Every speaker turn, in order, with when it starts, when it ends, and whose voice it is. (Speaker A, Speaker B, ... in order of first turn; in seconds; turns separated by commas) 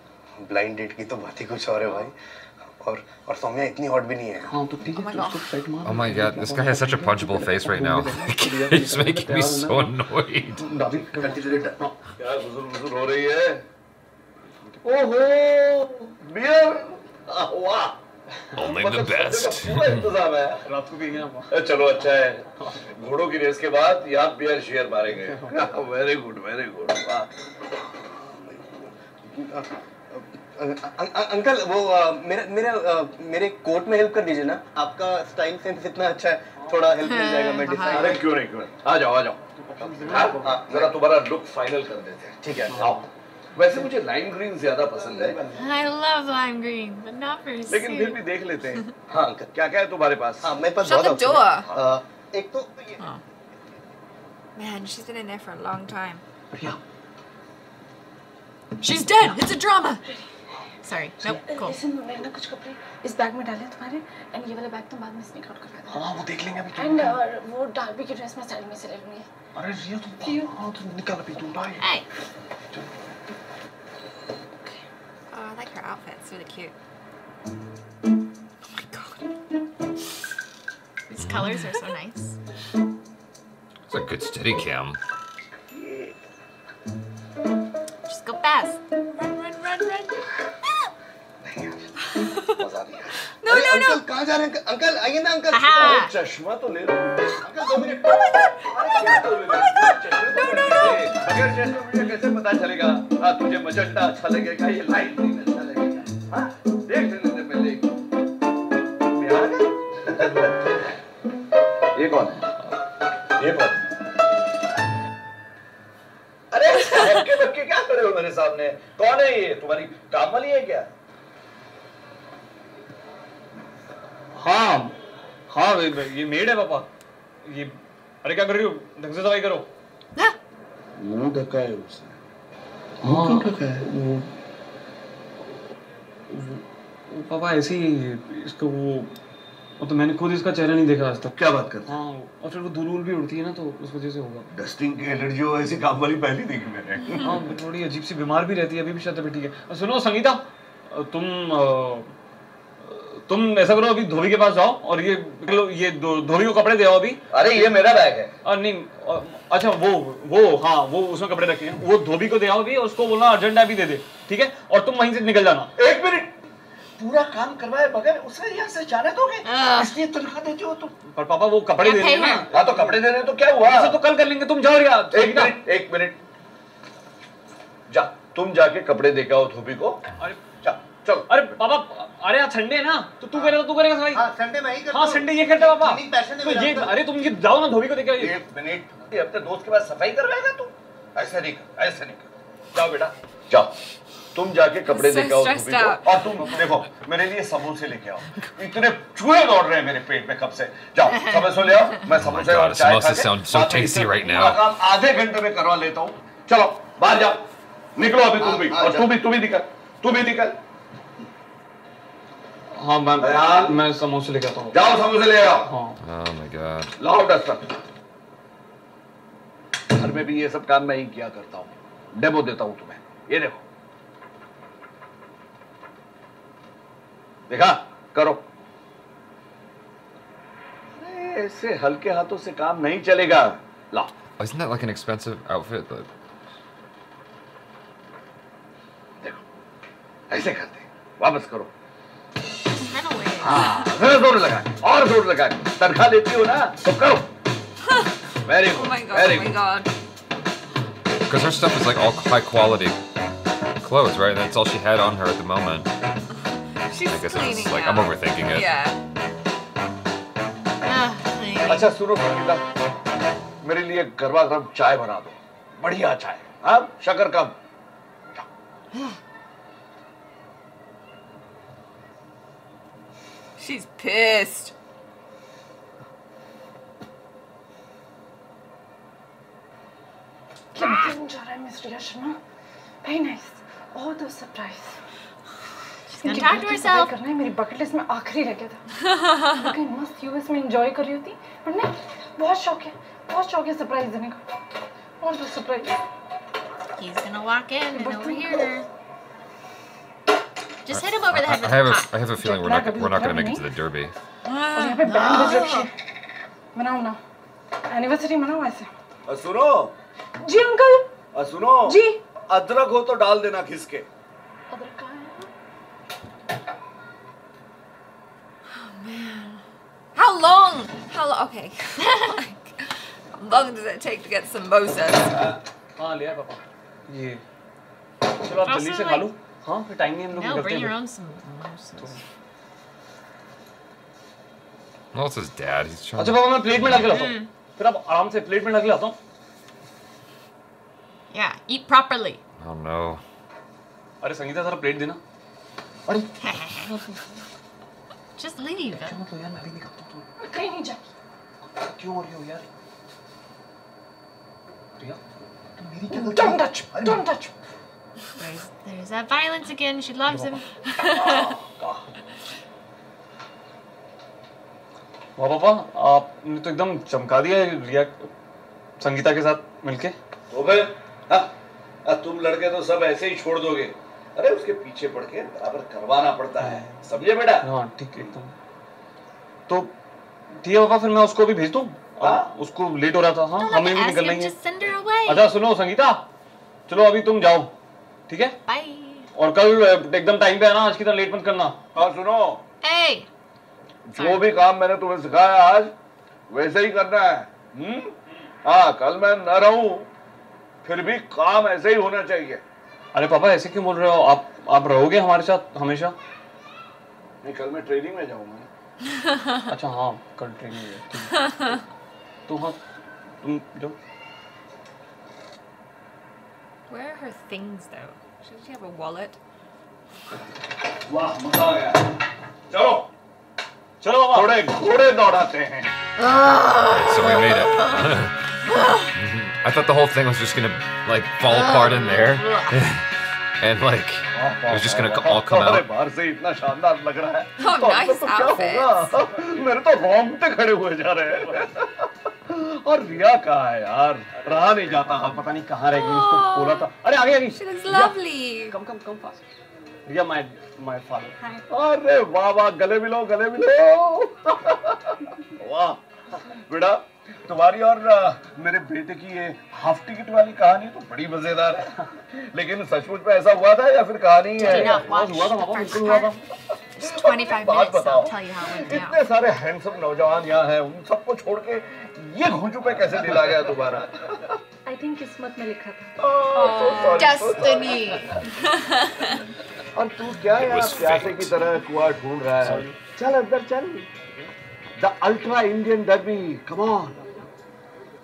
Speaker A: 0.4-4.5, Speaker B: 4.4-11.9, Speaker C: 4.9-5.5, Speaker D: 5.8-10.7, Speaker A: 10.6-11.8, Speaker E: 12.2-13.6, Speaker E: 14.8-18.0, Speaker D: 18.6-20.1, Speaker E: 18.6-20.6, Speaker B: 20.6-21.6, Speaker E: 21.5-27.3, Speaker B: 25.1-25.6, Speaker A: 28.2-38.2, Speaker F: 37.0-38.2, Speaker E: 37.8-45.6, Speaker B: 39.5-40.6, Speaker A: 40.4-41.0, Speaker A: 42.4-42.8, Speaker B: 42.6-43.1, Speaker A: 44.9-45.6, Speaker F: 45.5-48.2, Speaker E: 47.7-48.9, Speaker A: 49.1-49.5, Speaker E: 49.5-50.5, Speaker A: 50.4-53.0, Speaker C: 50.8-51.7, Speaker C: 54.5-56.2, Speaker F: 58.8-60.0, Speaker F: 60.8-61.8, Speaker G: 61.4-66.1, Speaker B: 65.9-67.2, Speaker G: 66.7-69.3, Speaker B: 69.5-71.9, Speaker G: 70.2-70.5, Speaker C: 75.3-76.7, Speaker F: 81.1-82.4, Speaker D: 81.2-81.6, Speaker D: 83.9-85.0, Speaker E: 85.7-86.1, Speaker F: 88.0-88.8, Speaker C: 89.1-90.2, Speaker E: 91.4-93.3, Speaker C: 92.2-92.6, Speaker C: 93.4-94.0, Speaker A: 93.4-96.1, Speaker F: 95.5-96.1, Speaker E: 95.7-97.9, Speaker A: 97.4-98.1, Speaker C: 97.6-101.1, Speaker E: 98.6-107.9, Speaker E: 109.0-110.8, Speaker E: 111.9-112.5, Speaker E: 113.3-113.8, Speaker E: 116.5-120.9, Speaker B: 124.3-125.0, Speaker B: 125.5-126.9, Speaker B: 127.4-129.7, Speaker E: 131.0-132.2, Speaker B: 133.0-134.3, Speaker A: 133.1-133.8, Speaker E: 133.4-133.8, Speaker B: 136.3-139.1, Speaker B: 139.8-141.3, Speaker E: 141.3-141.9, Speaker B: 141.8-144.5, Speaker E: 144.5-147.4, Speaker B: 147.2-152.1, Speaker B: 152.8-157.8, Speaker E: 157.3-158.3, Speaker B: 158.4-165.7, Speaker E: 165.8-166.4, Speaker E: 167.0-170.9, Speaker F: 169.4-169.9, Speaker B: 171.1-173.0, Speaker F: 171.8-172.5, Speaker E: 172.4-174.0, Speaker B: 173.6-175.6, Speaker E: 175.1-176.2, Speaker E: 177.9-180.1, Speaker E: 180.6-181.5, Speaker B: 181.3-184.3, Speaker A: 184.1-186.9, Speaker B: 184.9-188.4, Speaker E: 188.2-193.8, Speaker E: 194.3-207.4, Speaker C: 194.9-196.7, Speaker F: 201.1-201.5, Speaker D: 202.1-204.7, Speaker E: 207.9-210.6, Speaker A: 208.4-209.2, Speaker B: 212.7-214.8, Speaker E: 213.2-213.8, Speaker E: 214.7-215.7, Speaker B: 215.6-216.0, Speaker D: 216.0-216.9, Speaker E: 217.0-217.7, Speaker E: 219.9-223.6, Speaker E: 227.5-228.4, Speaker E: 231.0-234.1, Speaker D: 234.4-236.1, Speaker E: 240.3-241.7, Speaker F: 242.8-243.8, Speaker E: 243.4-247.3, Speaker C: 247.8-248.1, Speaker E: 248.4-249.5, Speaker C: 248.6-249.9, Speaker D: 251.3-253.0, Speaker D: 253.8-255.9, Speaker C: 256.8-259.0, Speaker D: 257.1-258.7, Speaker F: 260.8-262.0, Speaker E: 261.6-262.6, Speaker E: 263.6-267.6, Speaker C: 273.6-274.7, Speaker G: 280.7-282.4, Speaker G: 283.0-284.9, Speaker F: 286.1-287.1, Speaker G: 286.2-288.8, Speaker C: 289.1-289.5, Speaker G: 289.5-294.4, Speaker G: 295.2-296.0, Speaker F: 297.0-298.8, Speaker G: 297.9-298.8, Speaker F: 300.8-302.2, Speaker D: 300.9-304.1, Speaker G: 302.3-303.7, Speaker C: 304.4-305.1, Speaker G: 304.7-305.9, Speaker F: 305.0-305.9, Speaker G: 306.7-307.2, Speaker G: 307.9-308.9, Speaker E: 309.3-309.9, Speaker G: 310.4-311.1, Speaker E: 311.3-314.1, Speaker G: 311.8-312.2, Speaker G: 314.7-315.5, Speaker C: 318.7-319.6, Speaker C: 320.1-325.5, Speaker F: 322.0-322.4, Speaker E: 325.2-325.6, Speaker B: 326.0-327.4, Speaker B: 328.4-330.9, Speaker F: 328.6-329.3, Speaker F: 330.3-332.2, Speaker D: 335.1-337.2, Speaker B: 336.2-339.1, Speaker F: 336.9-337.5, Speaker F: 341.3-342.4, Speaker D: 342.6-343.2, Speaker B: 344.2-345.2, Speaker F: 346.4-346.9, Speaker F: 348.4-349.2, Speaker B: 349.0-350.3, Speaker G: 350.4-351.1, Speaker B: 351.7-352.7, Speaker B: 356.1-357.4, Speaker G: 356.1-357.4, Speaker F: 358.4-361.5, Speaker E: 361.1-362.0, Speaker B: 365.4-368.3, Speaker B: 369.0-370.1, Speaker E: 370.5-371.5, Speaker E: 372.0-377.7, Speaker B: 376.6-376.9, Speaker B: 377.6-378.5, Speaker B: 380.6-384.5, Speaker E: 382.2-382.5, Speaker F: 383.6-385.5, Speaker B: 385.2-386.2, Speaker B: 386.9-387.7, Speaker B: 388.3-388.6, Speaker F: 388.7-389.3, Speaker B: 389.3-391.8, Speaker E: 391.9-392.6, Speaker F: 392.8-393.3, Speaker E: 394.1-395.9, Speaker F: 394.1-394.4, Speaker E: 396.5-400.1, Speaker E: 400.8-402.6, Speaker B: 403.1-406.1, Speaker E: 407.4-408.7, Speaker C: 409.1-409.6, Speaker B: 409.7-411.8, Speaker B: 412.5-412.8, Speaker B: 413.4-413.9, Speaker C: 416.9-419.4, Speaker E: 421.1-422.1, Speaker E: 422.7-423.1, Speaker B: 424.0-424.5, Speaker E: 424.3-425.9, Speaker F: 426.2-428.1, Speaker D: 426.4-428.4, Speaker F: 428.7-429.1, Speaker D: 429.1-433.1, Speaker F: 431.4-432.8, Speaker D: 433.6-435.9, Speaker E: 434.3-445.4, Speaker C: 437.6-439.1, Speaker B: 441.3-441.6, Speaker B: 444.3-448.1, Speaker C: 445.9-446.9, Speaker C: 447.5-448.7, Speaker B: 448.7-449.4, Speaker B: 450.1-451.4, Speaker E: 451.7-465.1, Speaker B: 464.6-466.4, Speaker F: 464.6-466.4, Speaker F: 466.9-469.2, Speaker E: 467.0-474.6, Speaker G: 474.9-476.1, Speaker E: 476.2-478.4, Speaker C: 476.5-477.9, Speaker F: 477.1-478.4, Speaker C: 478.6-479.3, Speaker E: 479.9-484.1, Speaker D: 480.5-481.7, Speaker B: 482.6-483.0, Speaker E: 485.0-487.3